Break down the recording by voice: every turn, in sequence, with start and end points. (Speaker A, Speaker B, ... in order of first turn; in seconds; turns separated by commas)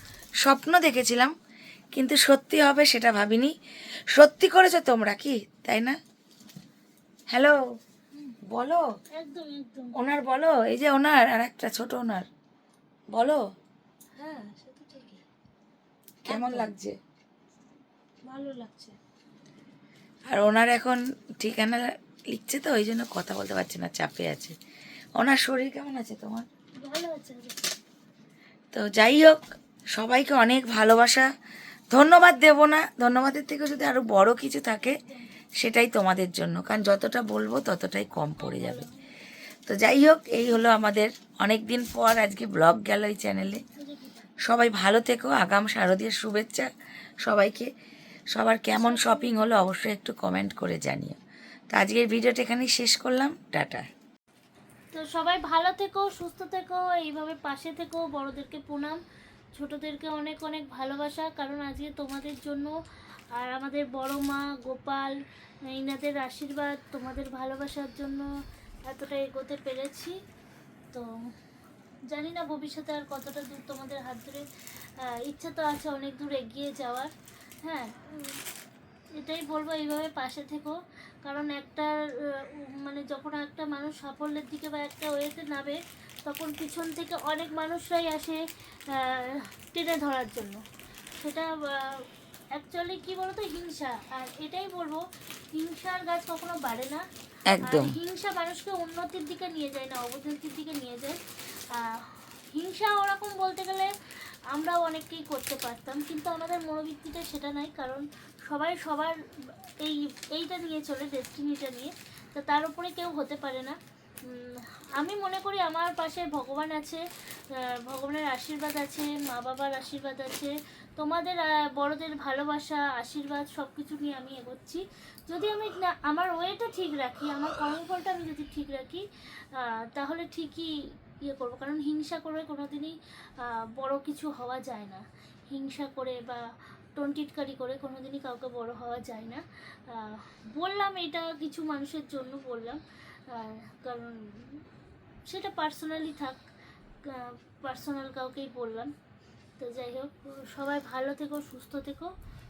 Speaker A: 0.4-1.3, Speaker A: 1.9-3.5, Speaker A: 4.1-6.0, Speaker A: 7.3-7.6, Speaker A: 8.5-8.8, Speaker B: 9.1-9.9, Speaker A: 10.0-12.3, Speaker A: 13.1-13.4, Speaker C: 14.2-15.2, Speaker A: 16.2-17.0, Speaker C: 16.3-16.7, Speaker C: 18.3-19.0, Speaker A: 20.3-24.6, Speaker A: 25.2-26.5, Speaker B: 26.8-27.6, Speaker A: 28.7-29.4, Speaker A: 29.9-31.3, Speaker A: 31.9-34.9, Speaker B: 34.8-35.3, Speaker A: 35.6-38.9, Speaker B: 38.4-39.0, Speaker A: 39.7-43.6, Speaker B: 43.8-44.3, Speaker A: 44.5-46.7, Speaker A: 47.2-47.7, Speaker A: 48.3-51.2, Speaker B: 48.7-49.4, Speaker A: 51.7-53.9, Speaker B: 54.9-59.0, Speaker B: 59.5-62.7, Speaker B: 63.4-65.2, Speaker B: 65.7-68.3, Speaker B: 68.9-70.1, Speaker B: 72.1-74.5, Speaker B: 75.2-77.1, Speaker B: 77.7-78.4, Speaker B: 79.2-90.6, Speaker B: 91.2-92.0, Speaker B: 92.6-95.0, Speaker B: 95.5-97.0, Speaker A: 97.5-98.0, Speaker B: 97.7-101.2, Speaker B: 101.7-103.9, Speaker B: 104.5-109.2, Speaker B: 109.8-113.8, Speaker B: 114.3-117.0, Speaker B: 117.8-129.0, Speaker B: 129.5-130.7, Speaker B: 131.2-136.4, Speaker B: 137.0-144.6, Speaker B: 145.3-146.4, Speaker B: 147.1-148.9, Speaker B: 149.6-152.1